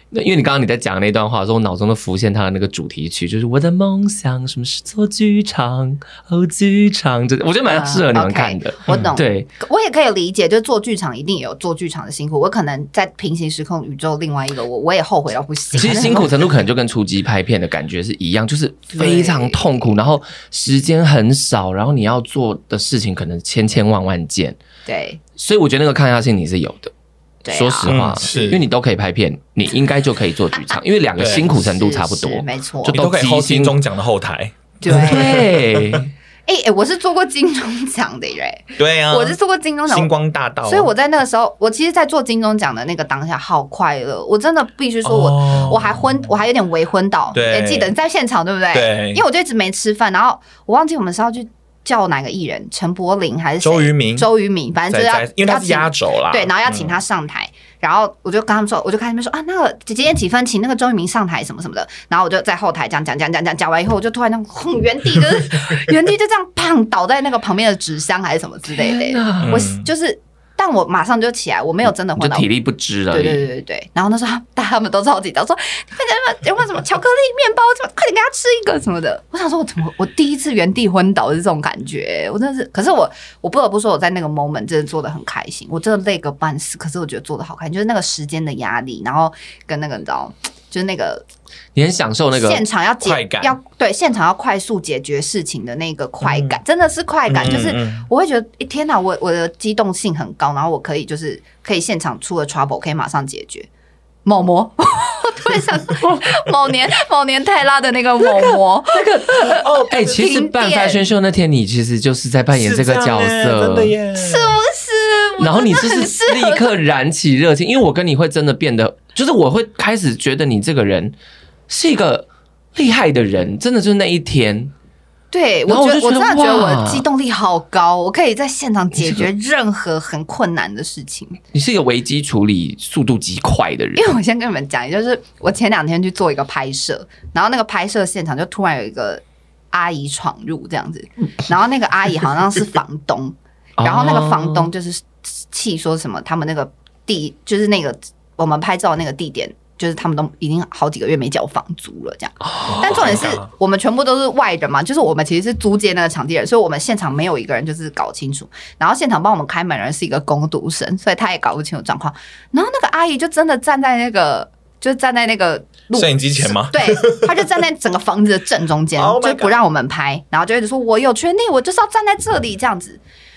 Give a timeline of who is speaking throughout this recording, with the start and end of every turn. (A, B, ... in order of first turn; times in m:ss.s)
0:00.1-0:09.5 A
0:07.7-0:16.4 B
0:15.7-0:24.6 A
0:18.9-0:19.9 B
0:24.8-0:25.2 B
0:25.4-0:26.9 A
0:27.4-0:28.5 B
0:27.5-0:33.8 A
0:27.9-0:28.6 C
0:31.2-0:31.5 C
0:31.3-0:33.0 B
0:32.9-0:36.0 C
0:34.8-0:35.5 B
0:34.8-0:36.1 A
0:36.5-0:40.1 B
0:38.8-0:39.4 C
0:39.9-0:40.9 C
0:40.6-1:12.5 B
0:45.0-0:46.0 C
0:47.3-0:47.9 C
0:48.7-0:49.2 C
0:53.6-0:54.3 C
0:54.9-0:57.0 C
1:08.7-1:09.6 A
1:09.4-1:09.9 C
1:12.2-1:13.5 A
1:13.1-1:31.2 B
1:31.7-1:32.6 A
1:32.3-1:43.7 B
1:33.0-1:33.6 C
1:36.2-1:36.6 C
1:37.3-1:38.1 C
1:44.2-1:51.1 B
1:48.9-1:54.0 A
1:49.6-1:50.0 C
1:52.5-1:54.6 C
1:54.1-1:56.7 B
1:55.4-2:01.1 A
2:01.7-2:04.7 A
2:05.3-2:11.4 B
2:05.7-2:07.0 A
2:11.5-2:14.1 A
2:14.0-2:53.0 B
2:23.8-2:24.7 A
2:32.6-2:33.1 A
2:32.6-2:33.4 C
2:45.9-2:47.4 C
2:49.0-2:49.6 C